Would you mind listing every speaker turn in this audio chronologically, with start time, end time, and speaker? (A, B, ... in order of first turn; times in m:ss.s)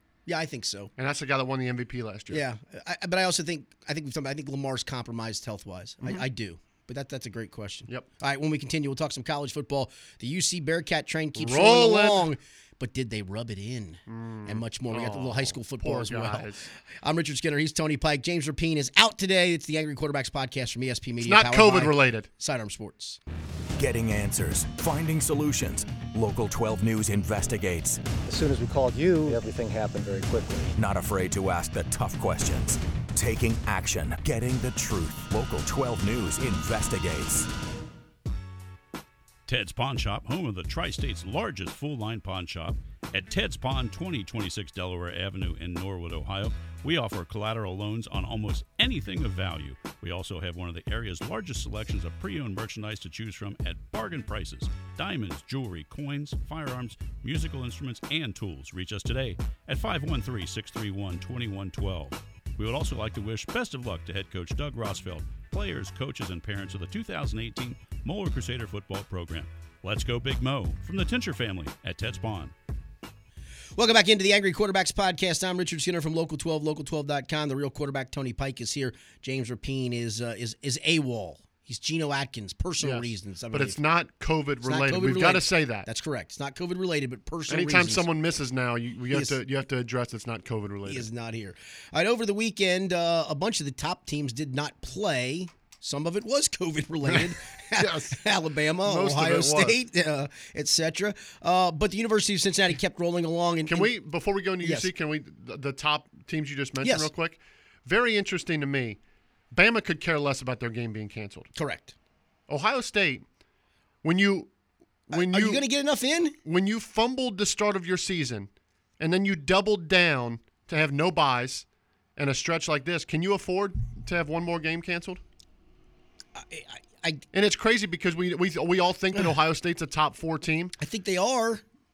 0:00.3-0:00.9 A
0:01.0-0:02.4 B
0:02.3-0:23.2 A
0:11.4-0:12.3 B
0:14.1-0:16.7 B
0:21.2-0:22.3 B
0:23.8-0:28.0 C
0:28.2-0:30.8 D
0:30.8-0:37.5 C
0:39.5-1:12.5 E
1:13.8-1:23.8 A
1:22.8-1:25.9 B
1:24.6-1:28.1 A
1:27.5-1:31.1 B
1:29.1-1:29.4 A
1:30.9-1:43.9 A
1:37.0-1:38.2 B
1:38.8-1:39.8 B
1:43.7-1:49.0 B
1:44.6-1:44.9 A
1:46.8-1:47.1 A
1:49.5-1:51.5 B
1:51.6-1:51.9 A
1:52.5-1:53.2 B
1:54.0-1:54.5 B
1:55.1-1:55.6 B
1:55.1-1:56.4 A
1:56.4-2:01.7 B
2:02.2-2:05.2 B
2:06.4-2:07.2 A
2:07.3-2:10.7 B
2:10.8-2:11.6 A